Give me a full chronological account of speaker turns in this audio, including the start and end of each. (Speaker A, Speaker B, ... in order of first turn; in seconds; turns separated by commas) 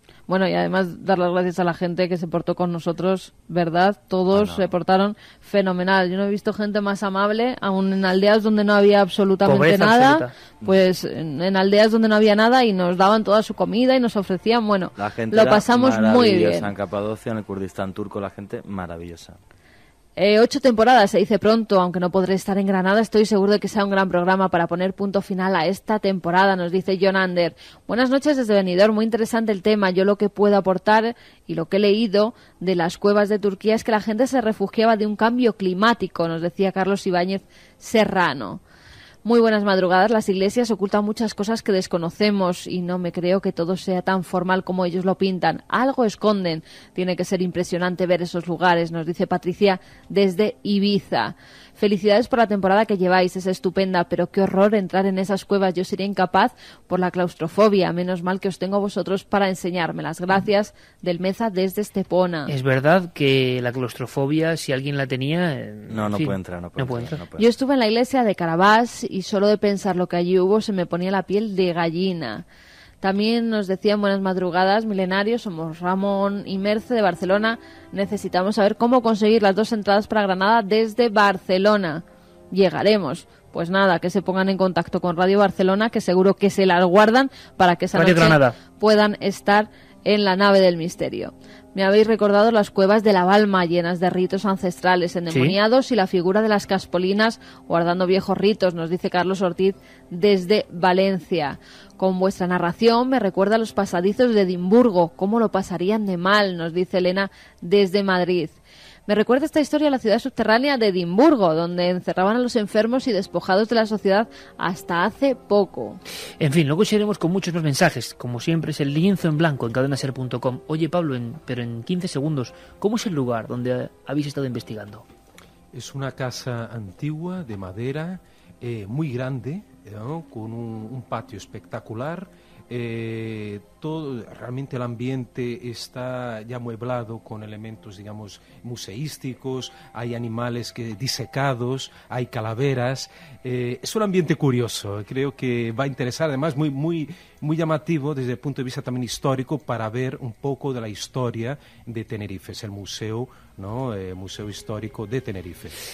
Speaker A: 0.3-16.7, Speaker B: 4.3-4.7, Speaker C: 9.4-10.3, Speaker B: 15.0-19.4, Speaker A: 20.2-38.6, Speaker A: 39.2-62.5, Speaker C: 62.5-67.2, Speaker B: 65.9-67.5, Speaker A: 67.4-72.5, Speaker A: 73.0-116.0, Speaker C: 87.9-88.6, Speaker C: 95.3-95.6, Speaker C: 116.4-125.0, Speaker D: 125.7-155.8